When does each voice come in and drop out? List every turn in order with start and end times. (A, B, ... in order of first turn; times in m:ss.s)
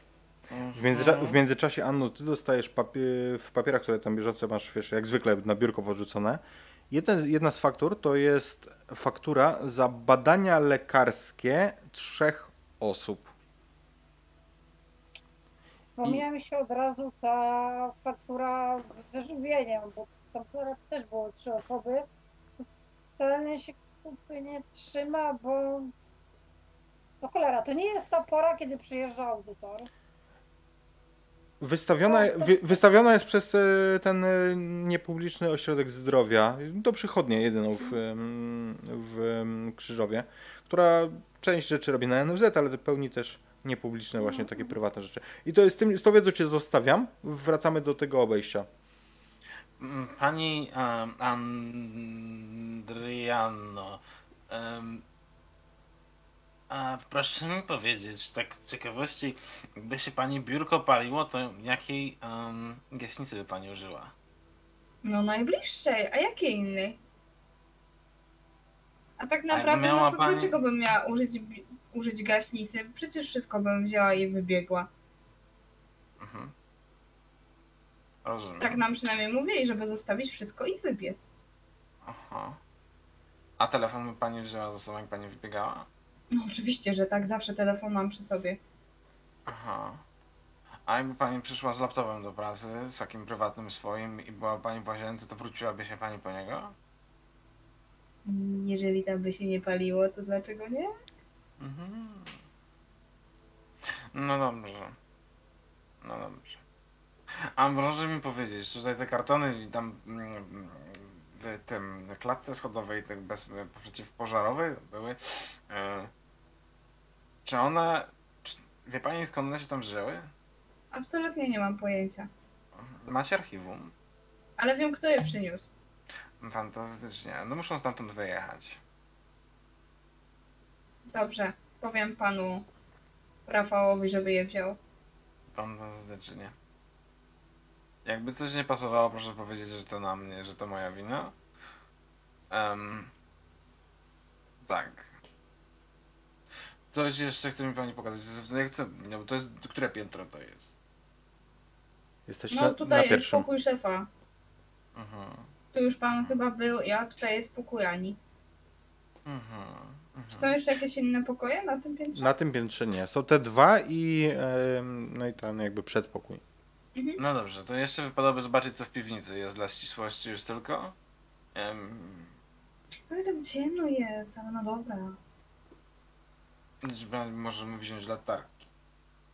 0:00.5-0:01.4 A
0:00.7-0:13.3 B
0:16.0-0:22.7 C
0:23.2-0:25.9 C
0:27.2-0:29.9 C
0:31.6-0:48.7 B
0:32.1-0:32.7 C
0:44.2-0:44.7 C
0:49.8-0:55.0 A
0:56.7-1:04.1 A
1:05.0-1:07.0 D
1:09.2-1:14.9 D
1:09.5-1:10.5 A
1:16.2-1:16.5 A
1:18.2-1:18.8 A
1:18.6-1:21.3 D
1:22.0-1:22.6 A
1:23.6-1:25.9 A
1:26.3-1:28.6 D
1:29.5-1:30.0 A
1:30.8-1:36.7 A
1:38.2-1:40.9 D
1:41.6-1:42.4 A
1:43.8-1:45.0 A
1:46.0-1:46.6 A
1:47.4-1:56.1 A
1:57.4-2:00.3 A
2:00.9-2:02.3 D
2:02.8-2:03.9 A
2:04.6-2:05.7 D
2:06.4-2:08.8 A
2:11.1-2:12.6 D
2:13.5-2:14.8 D
2:15.5-2:16.5 A
2:18.0-2:21.3 A
2:22.5-2:23.1 A
2:24.6-2:25.1 A
2:26.9-2:30.7 A
2:32.3-2:33.5 B
2:32.5-2:34.1 D
2:34.9-2:35.5 A
2:35.7-2:38.2 D
2:36.1-2:36.4 A
2:39.2-2:40.6 A
2:40.3-2:42.3 D
2:42.2-2:46.4 B
2:47.2-2:51.0 A
2:51.6-2:52.3 A
2:53.1-2:55.2 D
2:56.8-2:58.6 A